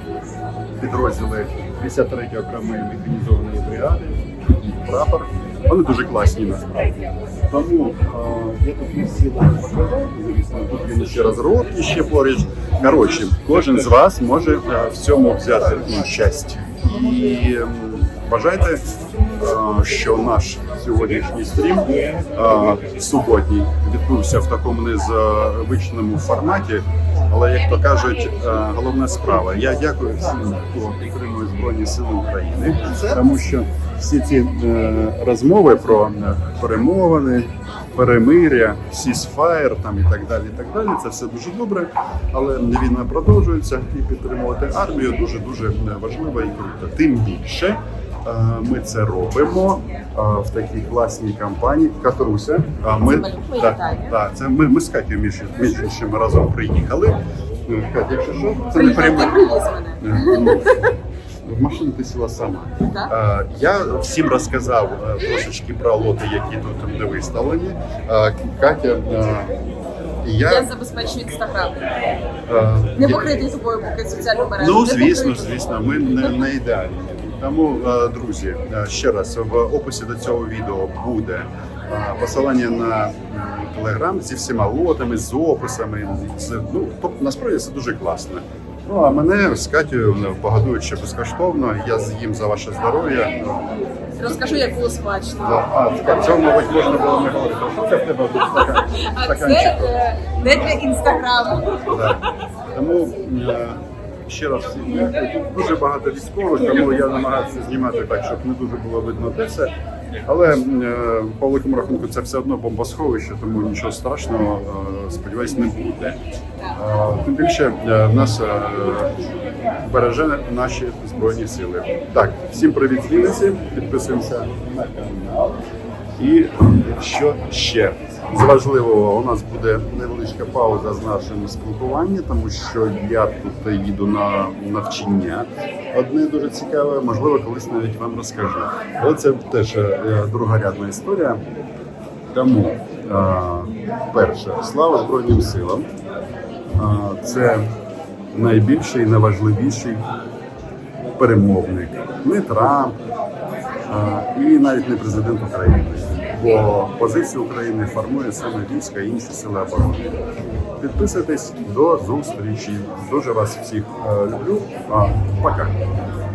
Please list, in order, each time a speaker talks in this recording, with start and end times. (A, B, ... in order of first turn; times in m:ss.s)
0:00.8-0:59.5 A
0:53.0-0:54.2 B
0:58.7-1:00.8 B
1:00.0-1:09.6 A
1:02.8-1:03.1 B
1:10.2-1:10.7 A
1:10.5-1:12.0 B
1:12.5-1:13.4 A
1:13.0-1:15.6 B
1:14.6-1:33.8 A
1:34.0-1:35.6 B
1:35.4-1:40.0 A
1:38.8-1:42.2 B
1:41.9-1:49.7 A
1:50.2-1:56.2 A
1:56.7-2:05.6 A
2:06.2-2:21.4 A
2:22.3-2:25.9 A
2:26.8-2:27.7 A
2:28.3-2:30.1 A
2:31.2-2:33.0 A
2:33.9-2:40.1 A
2:40.8-2:45.8 A